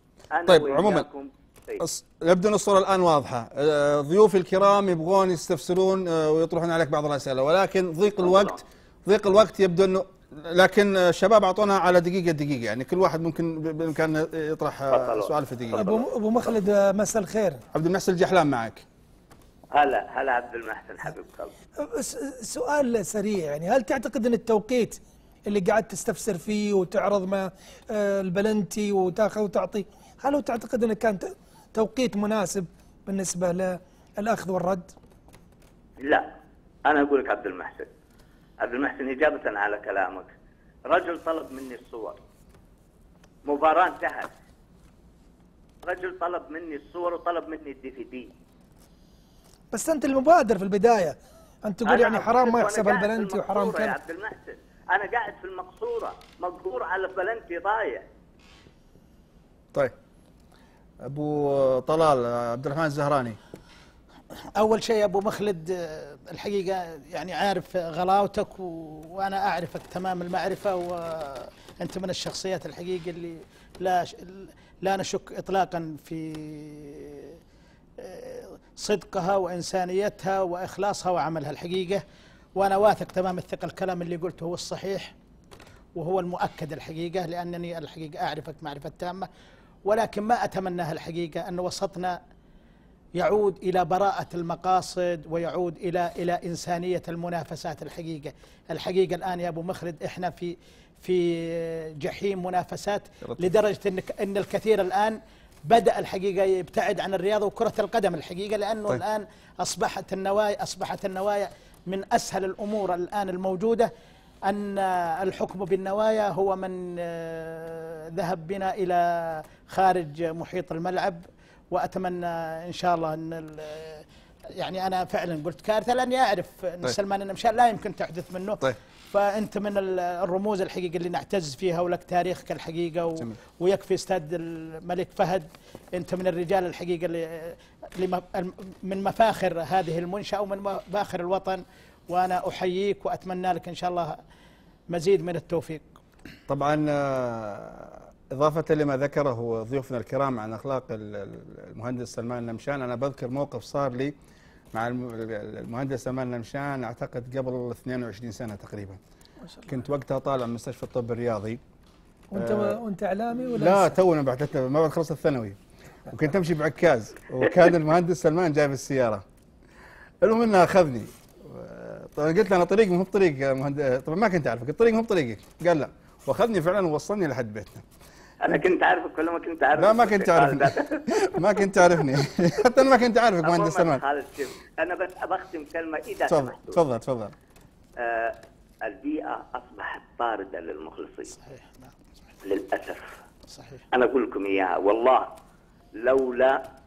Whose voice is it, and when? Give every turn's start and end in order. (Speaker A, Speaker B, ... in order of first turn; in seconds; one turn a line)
Speaker A: 0.3-1.8
Speaker B: 0.5-1.1
Speaker B: 1.8-15.8
Speaker A: 8.2-8.6
Speaker A: 14.9-16.1
Speaker C: 15.7-17.6
Speaker B: 17.7-18.8
Speaker A: 19.7-21.5
Speaker C: 21.8-34.9
Speaker A: 36.0-36.3
Speaker A: 36.9-37.9
Speaker A: 38.6-40.3
Speaker A: 40.9-42.2
Speaker A: 43.5-44.3
Speaker A: 45.8-48.3
Speaker C: 49.7-53.9
Speaker A: 51.9-58.1
Speaker B: 61.0-63.4
Speaker D: 64.6-77.4
Speaker D: 78.0-82.0
Speaker D: 82.6-85.1
Speaker D: 86.0-89.3
Speaker D: 89.9-92.2
Speaker D: 93.2-113.9
Speaker D: 114.5-124.0
Speaker D: 124.6-144.2
Speaker D: 144.9-145.9
Speaker B: 146.5-154.1
Speaker B: 154.7-159.0
Speaker B: 159.7-161.6
Speaker C: 162.3-164.0
Speaker B: 162.4-162.8
Speaker B: 163.5-165.6
Speaker B: 166.1-169.2
Speaker B: 170.2-177.8
Speaker A: 178.4-182.1
Speaker B: 179.8-184.0
Speaker A: 183.4-186.8
Speaker B: 186.3-187.3
Speaker A: 188.0-191.3
Speaker D: 191.4-191.9
Speaker A: 192.4-193.2
Speaker D: 193.5-193.8
Speaker A: 193.9-195.3
Speaker A: 196.0-196.6